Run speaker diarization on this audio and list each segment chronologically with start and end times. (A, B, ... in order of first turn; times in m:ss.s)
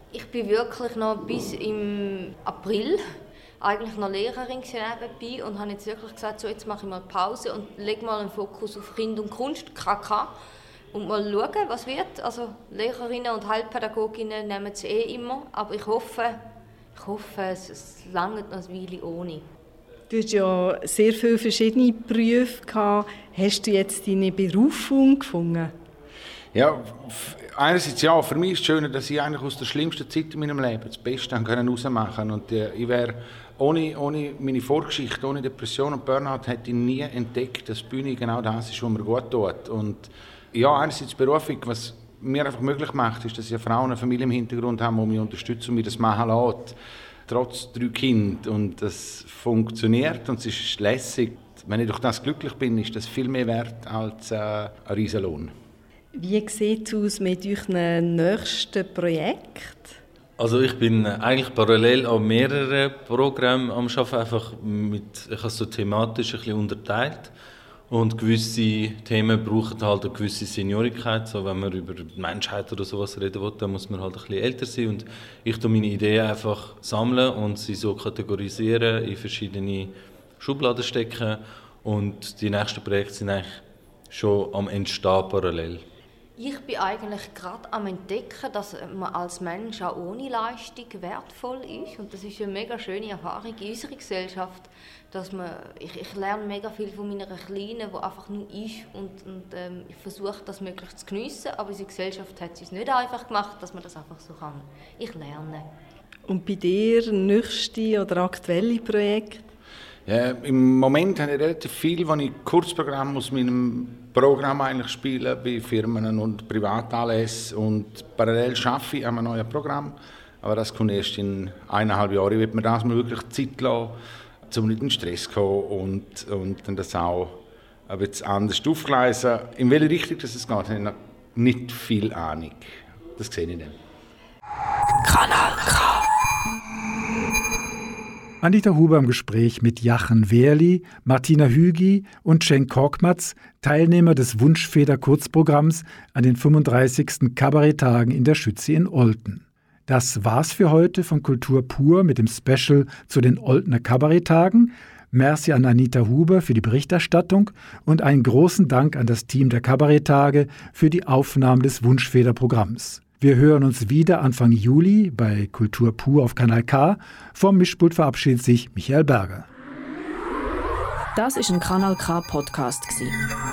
0:00.1-0:03.0 A
0:03.6-0:10.3 A
0:10.9-0:16.4 A
0:16.9-0:19.5 A
0:20.1-0:25.7 B
0:26.5-0:55.5 C
0:56.1-1:00.0 B
1:00.4-1:07.3 D
1:07.9-1:25.8 D
1:26.4-1:45.7 A
1:46.3-1:49.4 B
1:50.0-2:13.8 C
2:15.0-2:16.1 E
2:18.4-2:49.5 F
2:51.1-2:53.2 E